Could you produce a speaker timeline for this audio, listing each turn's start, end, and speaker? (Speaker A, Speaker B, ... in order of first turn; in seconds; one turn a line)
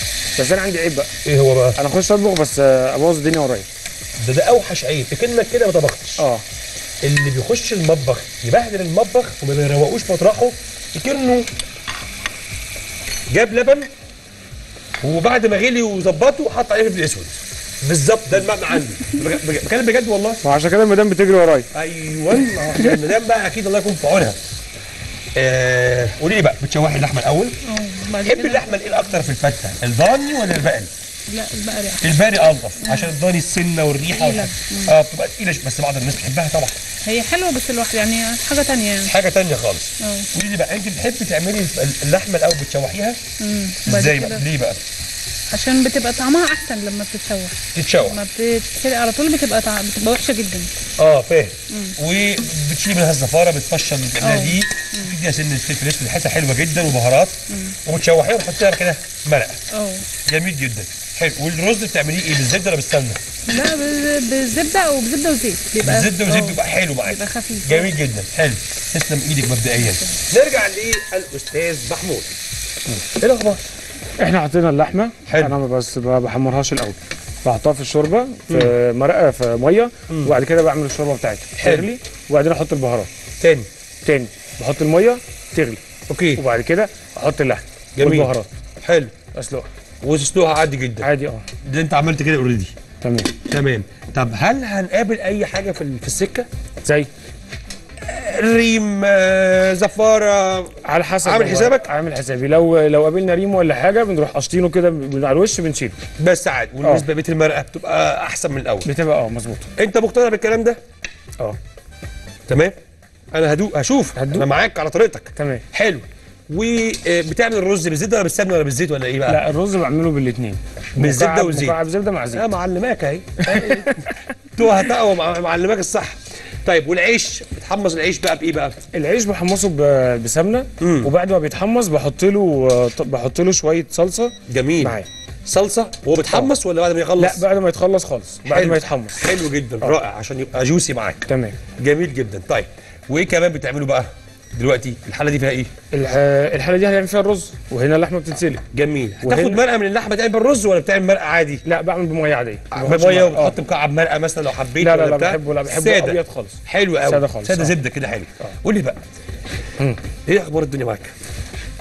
Speaker A: 0.3-1.1
Speaker B: 1.2-1.8
Speaker A: 1.8-3.7
Speaker B: 4.2-6.2
Speaker A: 6.2-6.4
Speaker B: 7.0-11.5
Speaker B: 13.3-13.9
Speaker B: 15.0-20.4
Speaker A: 20.4-21.7
Speaker B: 21.7-24.4
Speaker B: 25.3-27.6
Speaker C: 27.6-28.8
Speaker B: 28.2-30.9
Speaker C: 31.3-32.1
Speaker B: 32.0-36.8
Speaker C: 32.8-33.1
Speaker C: 34.1-34.9
Speaker C: 37.0-39.1
Speaker B: 39.0-43.2
Speaker C: 40.0-40.3
Speaker C: 43.4-44.4
Speaker B: 43.9-44.8
Speaker C: 45.5-50.7
Speaker B: 47.7-48.2
Speaker B: 51.0-59.6
Speaker C: 51.7-51.9
Speaker C: 54.2-55.1
Speaker C: 59.7-60.0
Speaker B: 60.2-63.2
Speaker C: 63.5-67.9
Speaker B: 65.8-72.3
Speaker B: 73.2-73.6
Speaker A: 74.2-83.1
Speaker B: 75.3-75.6
Speaker B: 80.1-80.3
Speaker B: 81.6-81.9
Speaker B: 83.4-83.7
Speaker A: 84.0-85.8
Speaker B: 86.1-86.4
Speaker A: 86.3-88.5
Speaker B: 88.0-88.3
Speaker B: 88.8-89.1
Speaker A: 89.3-89.7
Speaker B: 90.0-91.1
Speaker A: 91.0-91.5
Speaker B: 91.6-92.7
Speaker A: 93.0-93.3
Speaker B: 93.4-96.5
Speaker A: 96.8-97.1
Speaker B: 98.0-101.9
Speaker A: 100.8-106.0
Speaker B: 106.2-108.9
Speaker A: 108.8-109.7
Speaker B: 109.8-110.8
Speaker B: 112.5-112.8
Speaker B: 113.3-119.4
Speaker A: 114.2-114.5
Speaker A: 115.3-115.6
Speaker A: 119.3-122.5
Speaker B: 121.0-121.8
Speaker B: 122.3-128.8
Speaker A: 123.4-124.1
Speaker A: 128.9-135.1
Speaker B: 130.8-131.1
Speaker B: 134.5-137.4
Speaker A: 137.2-139.3
Speaker B: 138.4-145.7
Speaker A: 141.3-141.6
Speaker A: 145.9-148.6
Speaker B: 148.7-151.6
Speaker A: 149.2-149.6
Speaker A: 151.6-153.6
Speaker B: 152.7-159.0
Speaker A: 154.8-157.7
Speaker B: 160.3-161.1